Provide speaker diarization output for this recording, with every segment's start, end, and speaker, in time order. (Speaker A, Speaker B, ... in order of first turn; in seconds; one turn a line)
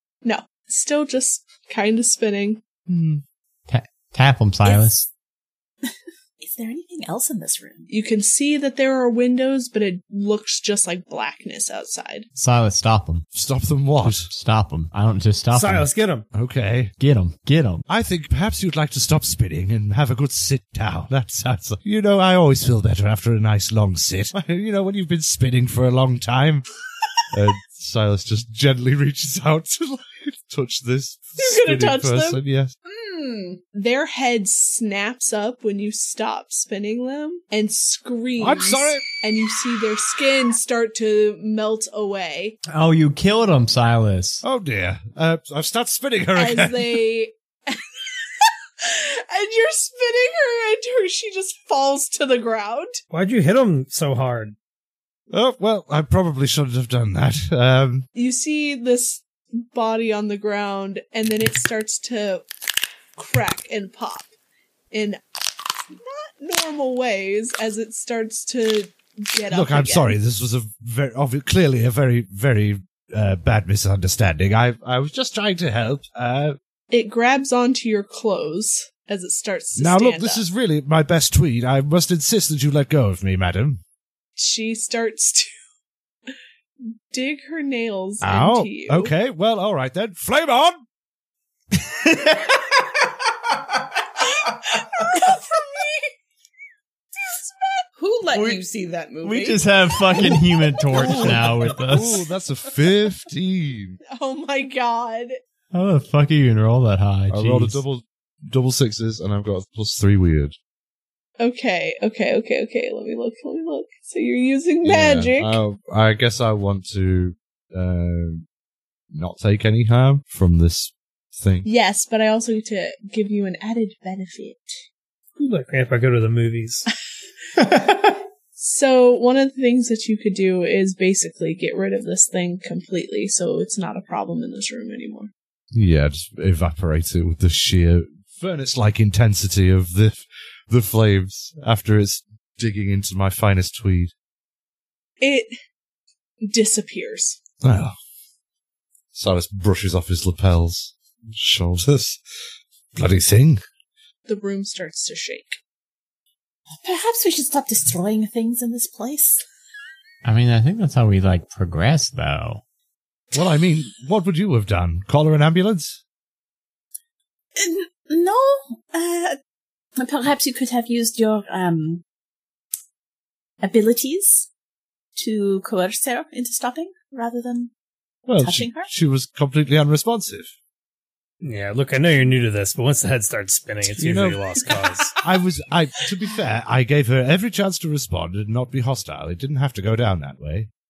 Speaker A: 0.2-2.6
Speaker B: 2.9-3.2
Speaker C: 3.7-5.1
Speaker D: 4.6-4.9
Speaker D: 5.9-7.9
Speaker A: 7.9-12.3
Speaker C: 12.3-13.2
Speaker B: 13.3-14.3
Speaker C: 14.0-15.9
Speaker E: 15.5-16.2
Speaker B: 16.3-16.9
Speaker C: 17.0-17.8
Speaker B: 17.9-26.6
Speaker B: 27.3-32.7
Speaker A: 31.4-32.4
Speaker F: 32.8-33.6
Speaker A: 33.7-42.6
Speaker B: 38.4-39.0
Speaker C: 42.7-44.4
Speaker B: 44.4-47.0
Speaker A: 46.4-53.0
Speaker E: 53.1-54.5
Speaker B: 55.3-58.1
Speaker A: 58.1-62.5
Speaker A: 63.1-64.3
Speaker A: 64.9-65.2
Speaker A: 65.9-70.2
Speaker B: 69.5-76.6
Speaker A: 76.9-80.4
Speaker B: 79.8-83.8
Speaker A: 84.4-85.5
Speaker A: 87.1-89.1
Speaker B: 88.2-90.8
Speaker C: 91.8-92.5
Speaker A: 94.8-96.1
Speaker A: 97.2-97.8
Speaker F: 98.0-99.6
Speaker C: 98.3-98.6
Speaker C: 99.2-102.2
Speaker B: 100.9-104.0
Speaker A: 104.1-105.4
Speaker C: 105.7-107.8
Speaker B: 107.3-110.5
Speaker A: 111.4-115.6
Speaker B: 114.8-118.5
Speaker B: 119.1-121.7
Speaker A: 121.6-124.8
Speaker E: 125.4-126.9
Speaker A: 128.6-135.3
Speaker B: 135.7-144.1
Speaker A: 145.2-145.5
Speaker A: 146.4-147.4
Speaker B: 147.6-147.9
Speaker B: 149.1-152.2
Speaker B: 152.9-153.6
Speaker A: 154.3-155.6
Speaker D: 156.8-159.4
Speaker C: 160.2-162.6
Speaker B: 163.3-166.0
Speaker D: 167.6-169.4
Speaker D: 170.0-172.0
Speaker D: 173.6-174.5
Speaker D: 175.2-177.7
Speaker B: 178.2-180.5
Speaker D: 178.4-178.9
Speaker E: 181.4-185.1
Speaker B: 183.9-184.4
Speaker B: 185.2-190.7